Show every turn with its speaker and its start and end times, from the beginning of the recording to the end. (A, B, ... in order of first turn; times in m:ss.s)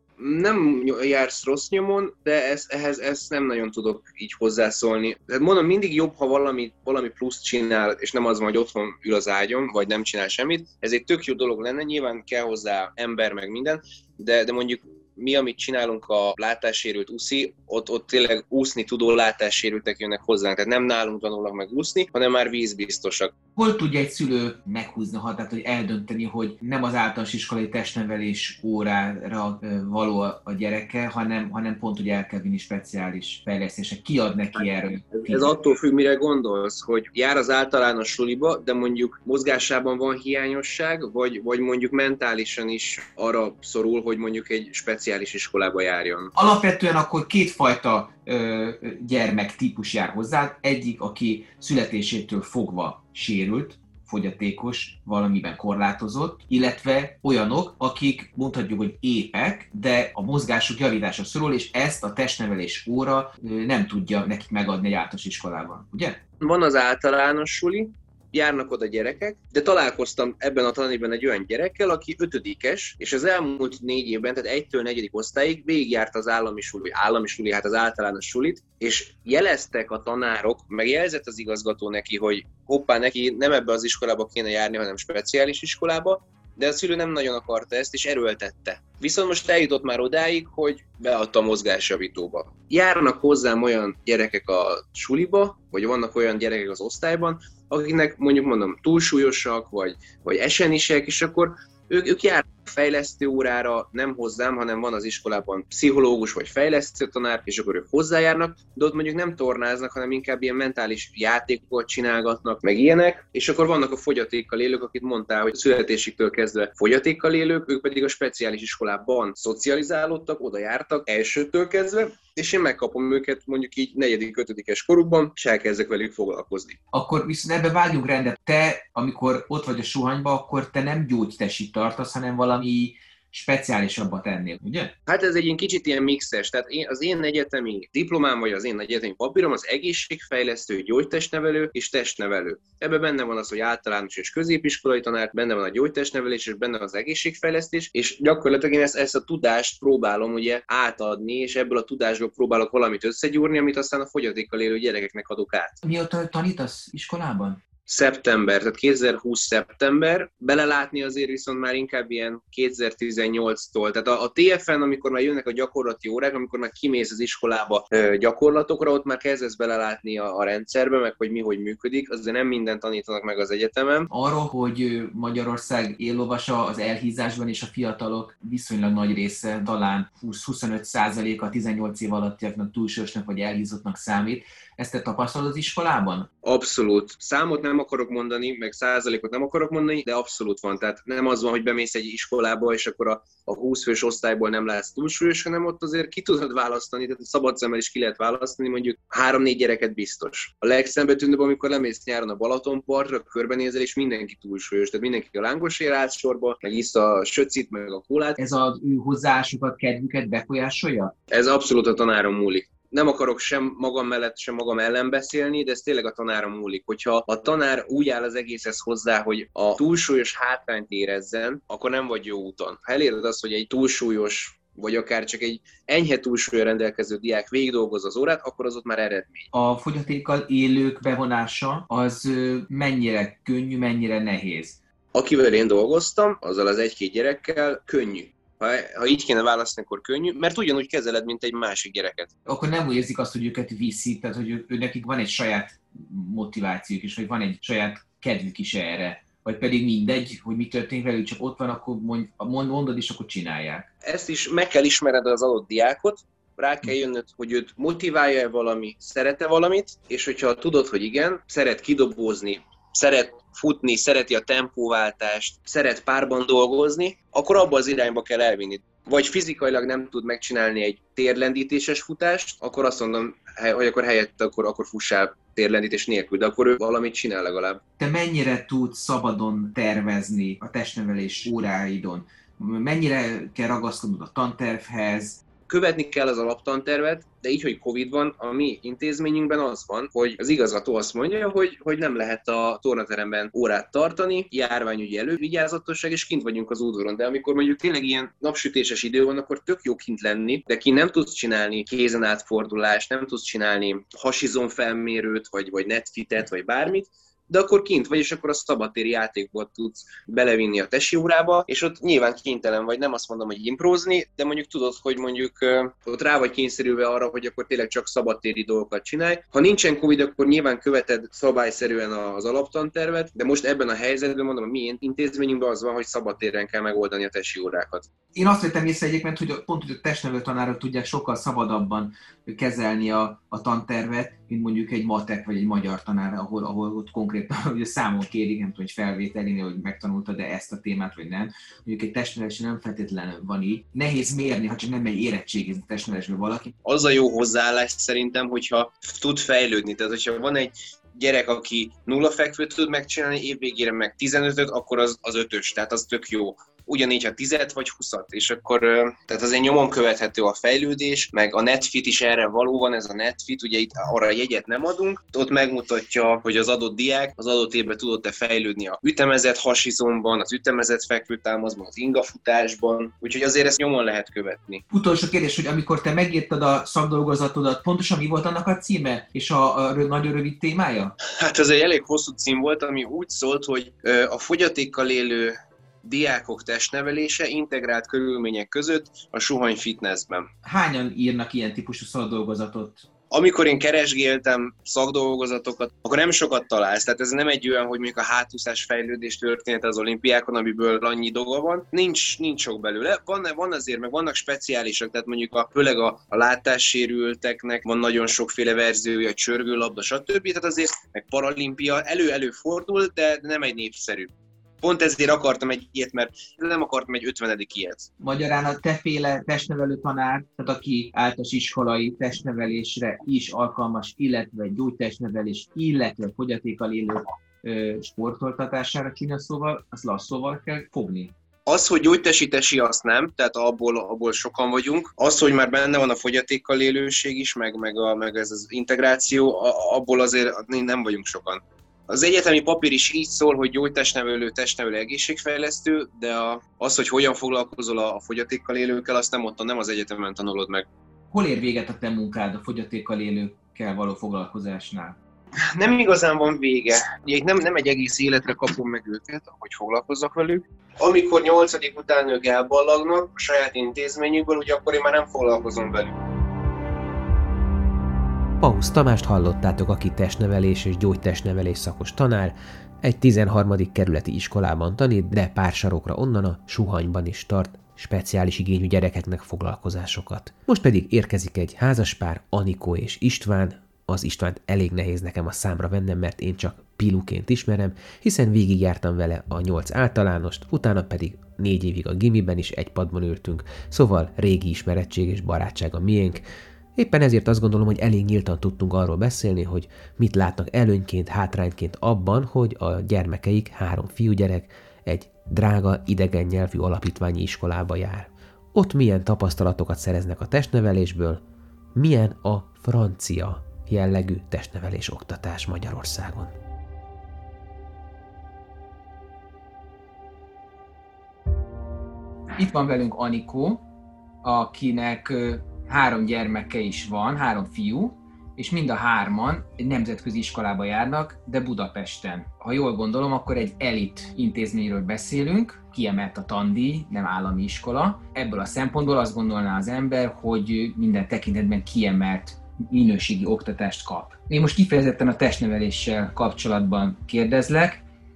0:00.2-0:23.3 A
0:23.6-0:35.5 B
0:35.2-0:46.3 A
0:46.4-1:06.2 B
1:06.4-2:06.8 A
2:06.9-2:14.9 B
2:15.1-2:35.8 A
2:35.8-2:37.6 B
2:37.9-2:54.1 A
2:54.1-3:06.3 B
3:06.4-3:28.4 A
3:28.4-3:31.1 B
3:31.3-3:49.5 A
3:49.5-3:54.8 B
3:55.1-4:02.3 A
4:02.5-4:13.9 B
4:14.0-4:37.8 A
4:38.0-4:45.4 B
4:45.7-5:28.1 A
5:28.4-5:46.8 B
5:46.8-6:14.8 A
6:14.9-6:21.1 B
6:21.3-6:30.5 A
6:30.6-6:33.1 B
6:33.3-6:54.3 A
6:54.8-6:58.1 A
6:58.2-7:11.3 B
7:11.7-7:30.9 A
7:31.3-7:35.2 B
7:35.6-7:46.2 A
7:48.6-8:16.4 C
8:17.0-8:31.4 C
8:32.0-8:36.5 C
8:42.6-8:43.8 B
8:44.4-9:08.0 B